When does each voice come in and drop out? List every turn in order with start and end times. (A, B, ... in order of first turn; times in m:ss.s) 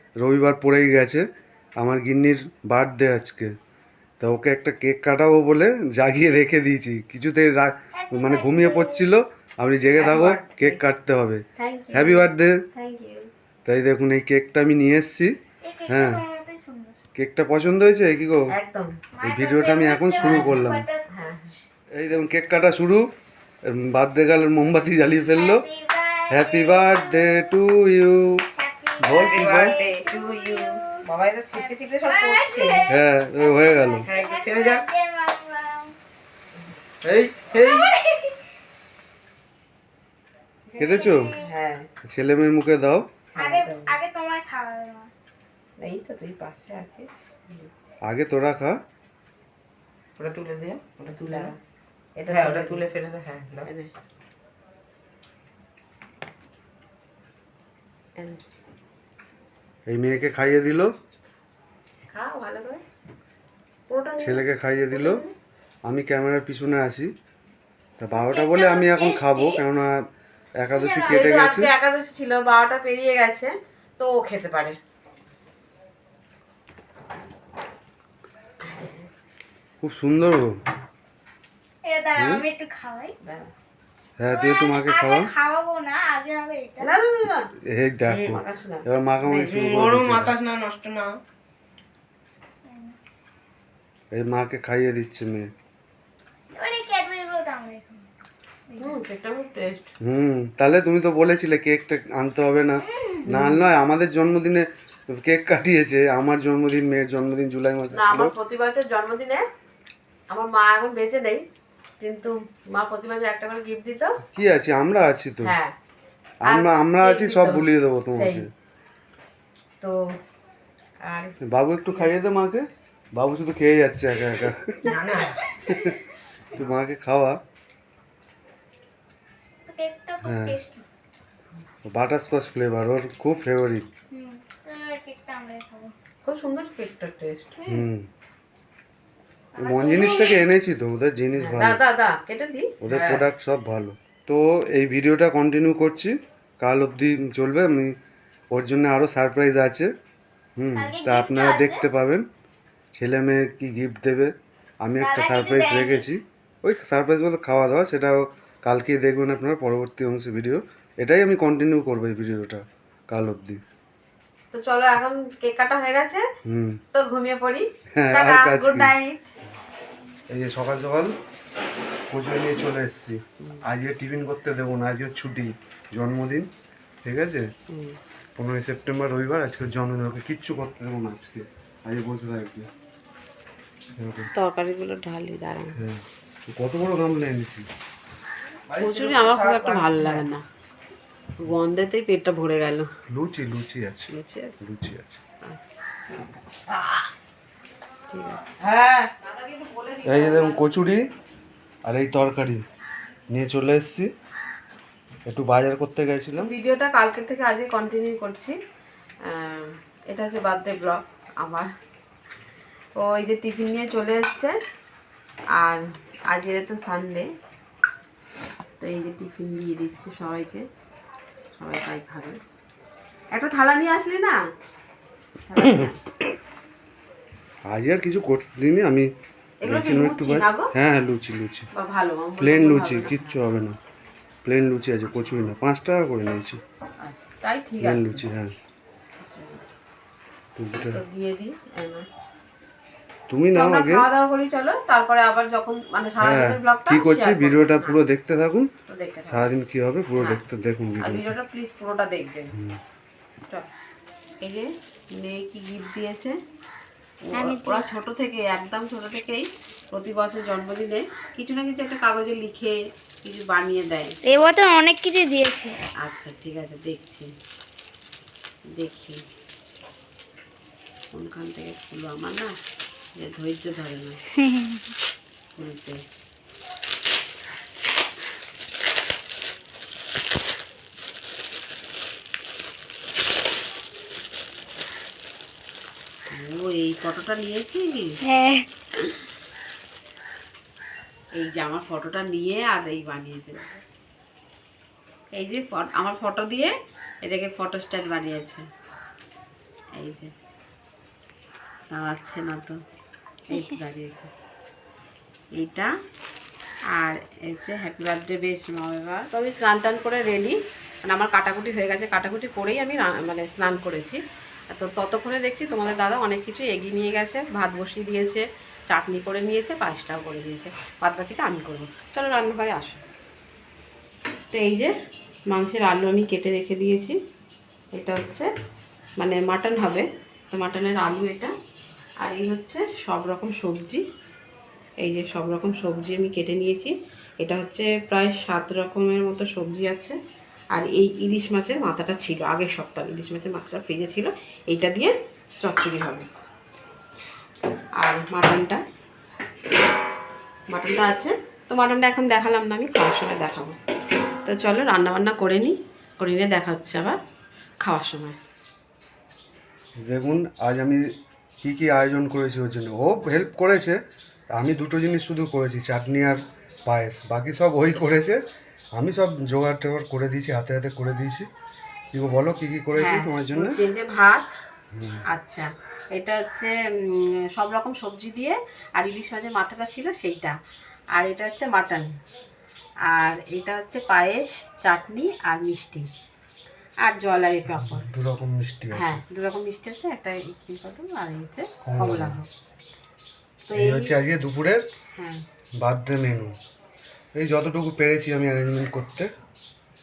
0:00.2-0:01.2 A
0:01.8-0:03.5 A
0:04.2-0:11.4 A
0:07.9-0:09.1 B
0:10.0-0:10.8 C
0:11.6-0:13.3 C
0:11.9-0:12.6 A
0:13.6-0:15.3 A
0:15.6-0:16.9 B
0:15.9-0:16.2 A
0:17.2-0:18.5 A
0:18.5-0:19.0 C
0:19.1-0:21.6 B
0:19.2-0:20.8 A
0:20.2-0:20.6 C
0:21.1-0:21.6 C
0:22.0-0:23.0 A
0:23.7-0:25.6 A
0:25.3-0:27.5 B
0:26.3-0:28.3 A
0:28.6-0:31.0 B
0:29.0-0:29.7 A
0:29.1-0:30.0 D
0:29.2-0:32.8 C
0:31.6-0:35.9 B
0:32.9-0:34.1 A
0:34.0-0:34.8 C
0:34.4-0:34.8 D
0:37.0-0:37.9 D
0:37.6-0:38.1 B
0:40.8-0:41.3 A
0:40.8-0:41.5 B
0:41.3-0:41.9 C
0:42.0-0:43.0 A
0:43.3-0:44.0 C
0:43.4-0:45.1 B
0:45.8-0:47.7 C
0:48.0-0:48.8 A
0:50.2-0:51.5 D
0:51.2-0:51.5 C
0:52.2-0:52.9 C
0:52.3-0:53.7 D
0:53.6-0:53.9 C
0:58.2-0:58.4 C
0:59.9-1:00.9 A
1:02.1-1:02.8 C
1:03.9-1:05.3 C
1:04.2-1:05.2 A
1:05.9-1:07.1 A
1:08.0-1:10.0 A
1:08.1-1:09.6 B
1:10.6-1:11.7 A
1:10.8-1:14.8 C
1:18.7-1:19.0 C
1:19.8-1:20.5 A
1:21.8-1:23.1 B
1:22.2-1:22.4 A
1:23.2-1:23.5 C
1:24.2-1:25.3 A
1:24.3-1:26.9 B
1:26.8-1:27.5 C
1:27.7-1:30.3 A
1:28.1-1:30.3 C
1:29.7-1:31.1 D
1:32.6-1:33.0 B
1:34.1-1:35.5 A
1:36.5-1:38.0 B
1:38.7-1:39.0 B
1:38.8-1:39.9 C
1:40.0-1:48.3 A
1:42.8-1:43.2 B
1:43.2-1:43.6 C
1:47.9-1:49.4 C
1:50.3-1:51.4 C
1:52.0-1:54.1 C
1:54.3-1:55.5 A
1:55.4-1:55.7 C
1:56.4-1:58.5 A
1:56.5-1:58.5 C
2:01.1-2:01.3 C
2:01.4-2:02.6 A
2:03.2-2:05.0 A
2:04.9-2:05.4 D
2:05.6-2:06.0 A
2:06.5-2:07.4 A
2:09.6-2:10.8 B
2:10.2-2:10.6 A
2:11.8-2:13.8 A
2:14.1-2:15.9 B
2:16.2-2:17.8 C
2:17.7-2:18.1 A
2:19.6-2:20.5 B
2:19.6-2:21.8 A
2:21.4-2:23.2 C
2:22.8-2:27.9 A
2:28.5-2:29.9 A
2:30.6-2:32.2 A
2:30.8-2:31.8 B
2:32.9-2:34.3 A
2:34.8-2:43.6 A
2:35.0-2:36.0 B
2:44.5-2:46.2 C
2:46.4-2:46.8 A
2:46.9-2:49.3 C
2:48.0-2:48.9 A
2:50.3-2:51.1 A
2:52.1-2:56.5 A
2:57.0-2:57.5 A
2:57.7-2:58.0 C
2:58.4-3:02.7 A
3:04.0-3:04.3 A
3:04.3-3:05.8 C
3:05.8-3:07.6 A
3:08.7-3:10.2 D
3:08.8-3:10.4 C
3:11.4-3:12.9 C
3:13.1-3:15.2 A
3:14.1-3:14.5 C
3:15.4-3:15.8 C
3:16.7-3:17.0 C
3:18.1-3:20.8 C
3:20.0-3:21.0 A
3:21.8-3:22.6 A
3:23.3-3:24.1 A
3:25.3-3:26.5 A
3:26.4-3:28.5 C
3:29.3-3:31.7 C
3:33.0-3:34.6 C
3:35.6-3:37.2 C
3:38.8-3:40.6 C
3:41.6-3:42.4 C
3:43.3-3:44.4 C
3:45.5-3:46.0 C
3:45.6-3:45.9 A
3:47.7-3:49.1 A
3:49.6-3:50.7 C
3:49.6-3:51.7 A
3:51.8-3:53.4 C
3:52.4-3:53.8 A
3:54.4-3:56.6 A
3:57.0-3:58.2 C
3:57.8-3:58.5 A
3:59.2-3:59.6 C
4:00.6-4:01.0 A
4:00.9-4:02.0 C
4:03.3-4:04.1 A
4:03.5-4:08.0 C
4:06.2-4:08.7 A
4:08.9-4:09.5 C
4:09.3-4:11.3 A
4:11.0-4:12.5 C
4:14.4-4:16.4 C
4:17.3-4:24.2 C
4:17.3-4:17.8 B
4:24.2-4:25.7 B
4:26.0-4:27.3 C
4:28.7-4:29.2 C
4:31.1-4:32.5 C
4:33.2-4:34.2 C
4:34.4-4:34.8 B
4:35.6-4:36.0 C
4:46.3-4:48.2 C
4:48.2-4:48.6 B
4:51.4-4:53.8 C
4:55.3-4:58.7 C
5:00.0-5:00.3 C
5:01.9-5:02.8 C
5:03.5-5:04.3 C
5:05.6-5:05.9 C
5:06.9-5:23.0 C
5:24.5-5:24.9 C
5:25.5-5:27.2 C
5:27.9-5:28.5 C
5:29.2-5:31.5 C
5:32.2-5:34.0 C
5:35.0-5:40.2 C
5:40.7-5:46.3 C
5:48.0-5:48.8 C
5:50.7-5:53.8 C
5:54.4-5:57.2 C
5:57.8-5:58.4 C
6:00.0-6:01.0 A
6:01.6-6:04.0 A
6:04.5-6:08.4 A
6:09.0-6:11.5 A
6:12.1-6:13.8 A
6:13.0-6:14.5 C
6:14.9-6:15.2 A
6:15.3-6:20.5 C
6:21.1-6:22.1 C
6:23.1-6:26.1 C
6:27.0-6:28.1 C
6:27.8-6:29.2 A
6:28.9-6:32.5 C
6:31.8-6:32.4 A
6:33.7-6:34.1 C
6:33.7-6:34.8 A
6:35.1-6:35.4 C
6:35.8-6:36.5 A
6:37.4-6:39.3 A